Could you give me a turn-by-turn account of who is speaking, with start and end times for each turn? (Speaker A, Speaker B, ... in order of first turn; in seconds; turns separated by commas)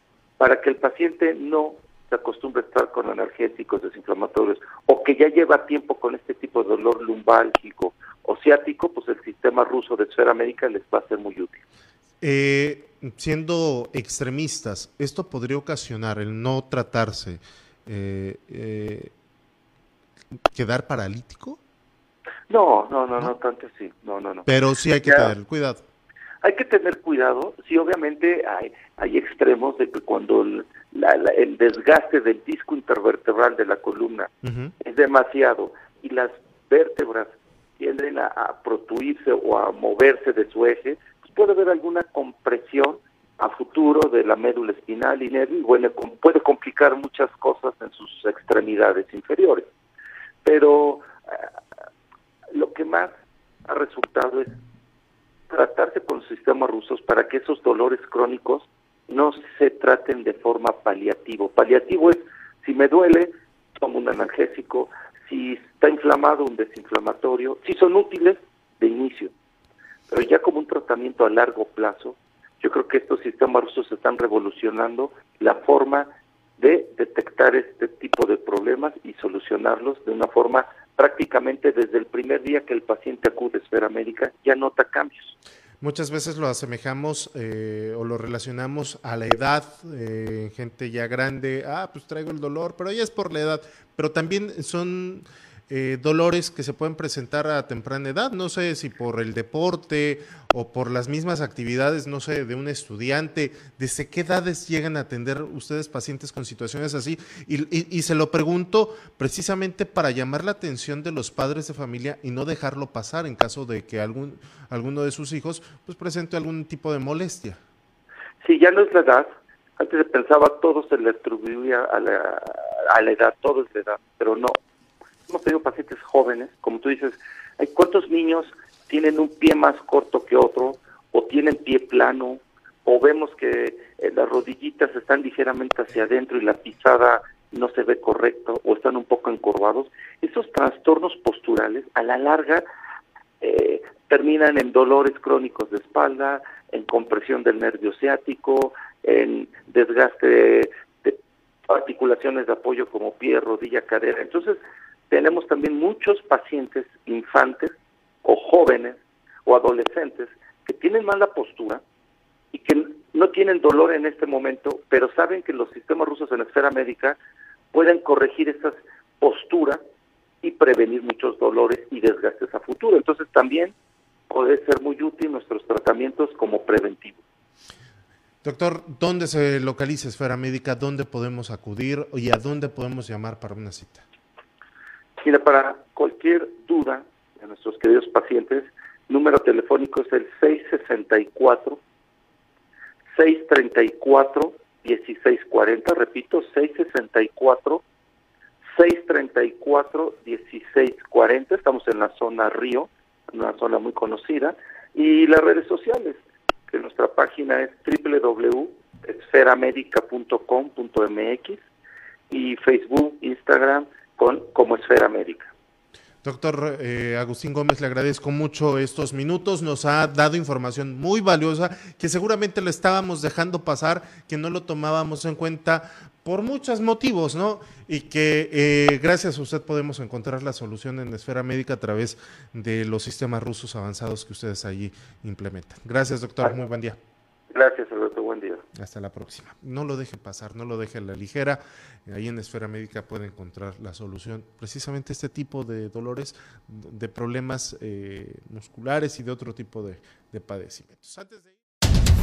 Speaker A: 0.4-11.6, Speaker B: 12.2-19.1, Speaker B: 20.5-21.6, Speaker A: 22.5-24.5, Speaker B: 24.4-25.8, Speaker A: 25.0-25.3, Speaker A: 26.4-49.7, Speaker B: 34.4-34.7, Speaker A: 50.4-51.5, Speaker A: 52.5-53.1, Speaker A: 53.6-54.5, Speaker A: 55.5-69.3, Speaker A: 70.1-85.4, Speaker B: 85.8-117.6, Speaker A: 118.4-124.5, Speaker A: 125.3-142.6, Speaker A: 143.4-151.2, Speaker A: 151.7-154.6, Speaker A: 155.1-161.8, Speaker A: 162.5-167.2, Speaker A: 167.7-169.8, Speaker A: 170.4-173.7, Speaker A: 174.3-177.2, Speaker B: 178.4-184.0, Speaker A: 185.2-191.8, Speaker A: 193.1-197.8, Speaker A: 198.7-211.6, Speaker A: 212.3-215.5, Speaker B: 216.2-237.0, Speaker A: 237.5-238.6, Speaker B: 238.7-251.6